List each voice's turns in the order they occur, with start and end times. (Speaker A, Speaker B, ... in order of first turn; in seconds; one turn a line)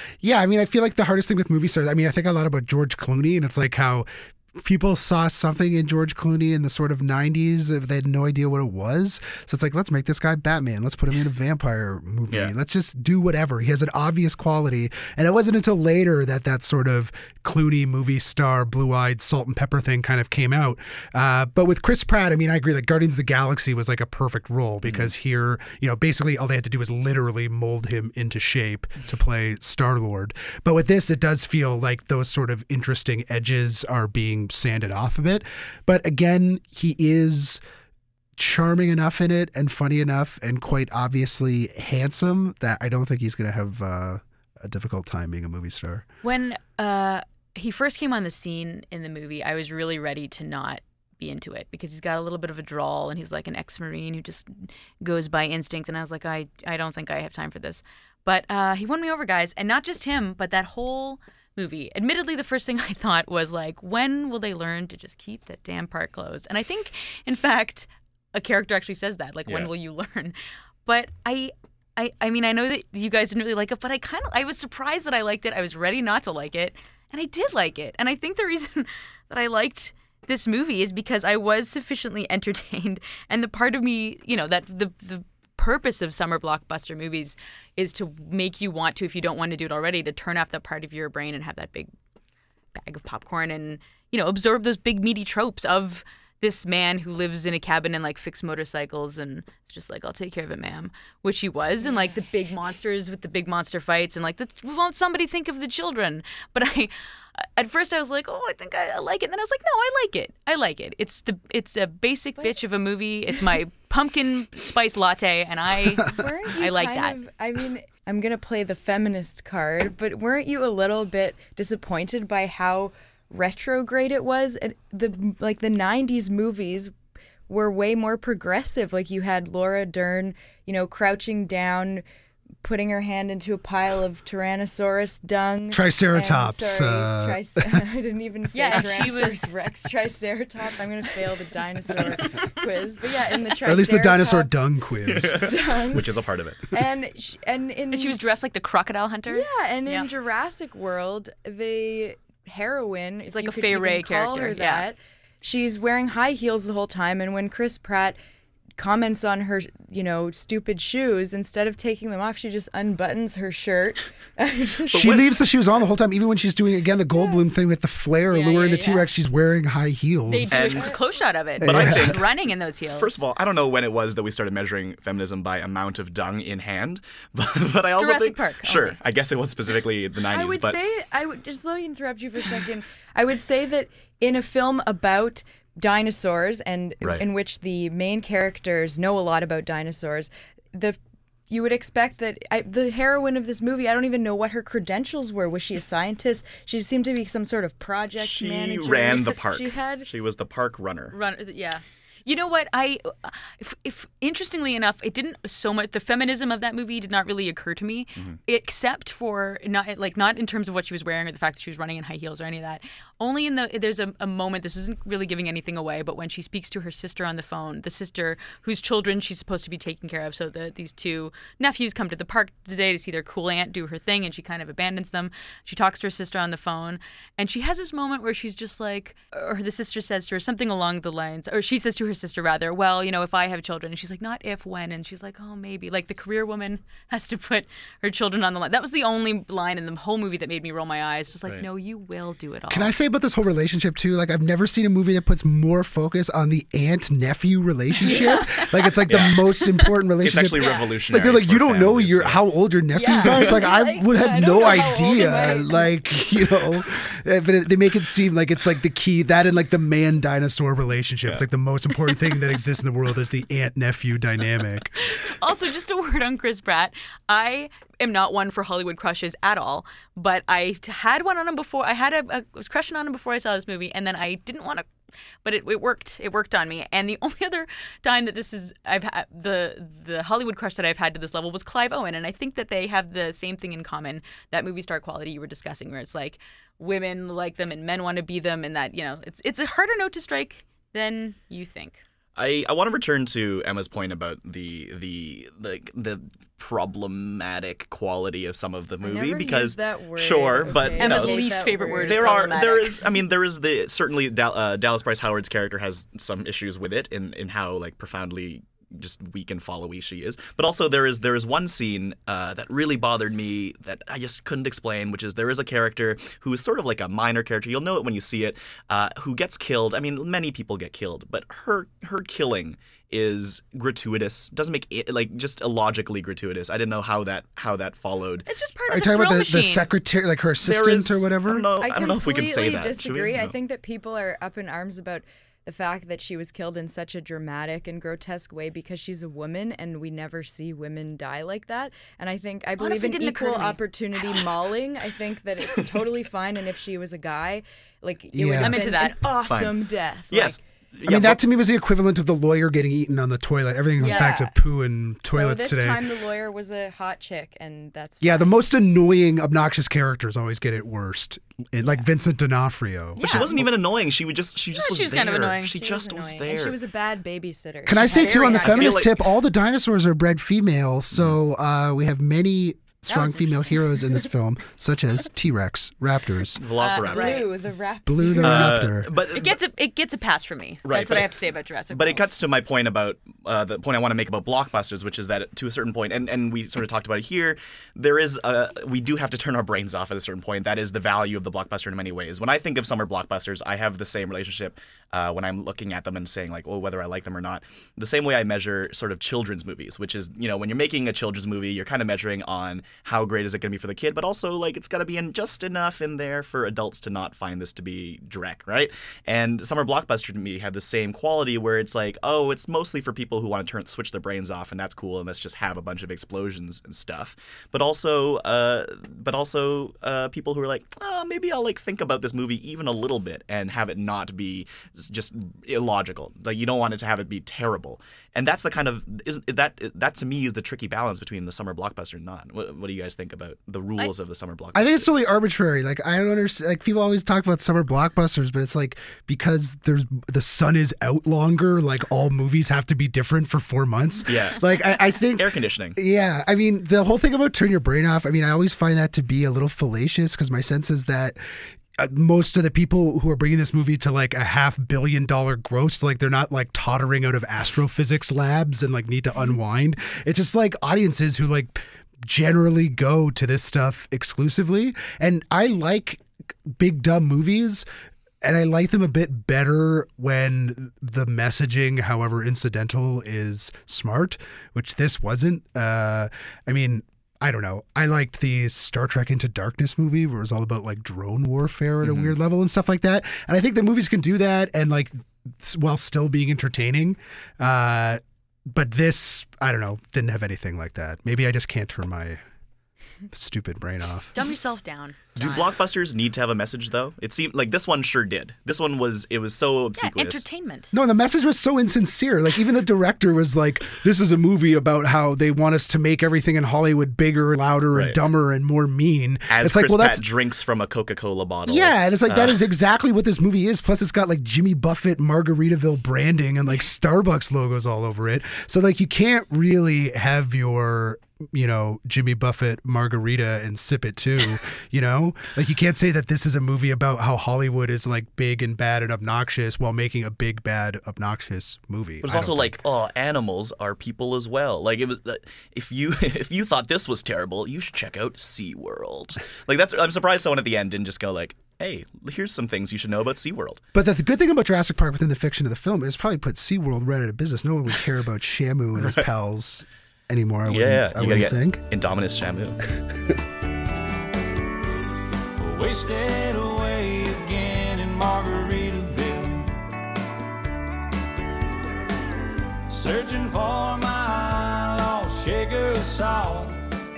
Speaker A: 0.2-37.6
Speaker B: 24.8-25.1
Speaker A: 38.4-46.0
Speaker C: 46.2-91.9
Speaker C: 92.7-117.2
Speaker D: 116.0-127.0
Speaker D: 127.5-132.1
Speaker D: 132.6-144.5
Speaker A: 135.7-137.8
Speaker C: 138.5-139.6
Speaker A: 143.6-145.4
Speaker B: 145.1-146.7
Speaker D: 145.2-146.2
Speaker D: 146.7-148.2
Speaker C: 147.9-150.1
Speaker D: 149.3-158.2
Speaker C: 153.3-154.9
Speaker D: 158.8-165.1
Speaker B: 164.9-165.4
Speaker A: 164.9-170.6
Speaker C: 168.3-169.1
Speaker C: 170.3-173.2
Speaker B: 170.5-170.9
Speaker D: 170.5-171.0
Speaker A: 171.6-172.2
Speaker B: 171.6-172.3
Speaker B: 172.9-180.8
Speaker C: 178.0-179.0
Speaker D: 180.3-191.0
Speaker D: 191.5-200.1
Speaker B: 198.2-201.1
Speaker C: 201.1-242.9
Speaker A: 242.7-265.0
Speaker C: 248.0-249.9
Speaker B: 249.1-249.4
Speaker B: 250.2-252.4
Speaker C: 252.9-255.9
Speaker B: 253.3-253.6
Speaker C: 265.0-274.9
Speaker C: 275.4-292.0
Speaker B: 292.4-328.5
Speaker D: 299.0-302.7
Speaker C: 300.9-303.0
Speaker C: 328.5-329.9
Speaker A: 328.9-331.7
Speaker B: 330.6-333.5
Speaker D: 331.8-350.6
Speaker C: 342.8-343.8
Speaker A: 348.3-348.9
Speaker C: 348.6-349.2
Speaker B: 349.5-351.4
Speaker A: 351.1-356.1
Speaker D: 354.0-354.6
Speaker C: 354.0-354.3
Speaker D: 355.3-358.5
Speaker A: 358.2-363.7
Speaker C: 363.2-363.5
Speaker B: 363.2-366.8
Speaker C: 364.7-365.8
Speaker D: 365.7-368.8
Speaker A: 367.9-376.6
Speaker C: 368.0-368.9
Speaker B: 368.6-369.2
Speaker C: 373.1-374.3
Speaker B: 376.6-377.5
Speaker C: 376.8-377.4
Speaker D: 377.1-378.9
Speaker A: 378.1-379.1
Speaker B: 378.4-379.5
Speaker C: 379.2-382.3
Speaker B: 380.9-381.4
Speaker B: 381.9-435.1
Speaker A: 434.7-467.9
Speaker B: 444.3-446.0
Speaker A: 468.4-492.4
Speaker B: 482.0-482.3
Speaker A: 493.3-494.4
Speaker C: 494.3-495.7
Speaker B: 495.4-500.4
Speaker C: 500.0-500.9
Speaker A: 500.9-510.2
Speaker B: 507.9-508.2
Speaker B: 509.5-512.7
Speaker A: 511.7-532.8
Speaker B: 532.2-543.8
Speaker A: 543.9-551.8
Speaker B: 549.0-549.3
Speaker B: 550.7-552.8
Speaker E: 555.6-559.7
Speaker E: 562.9-566.8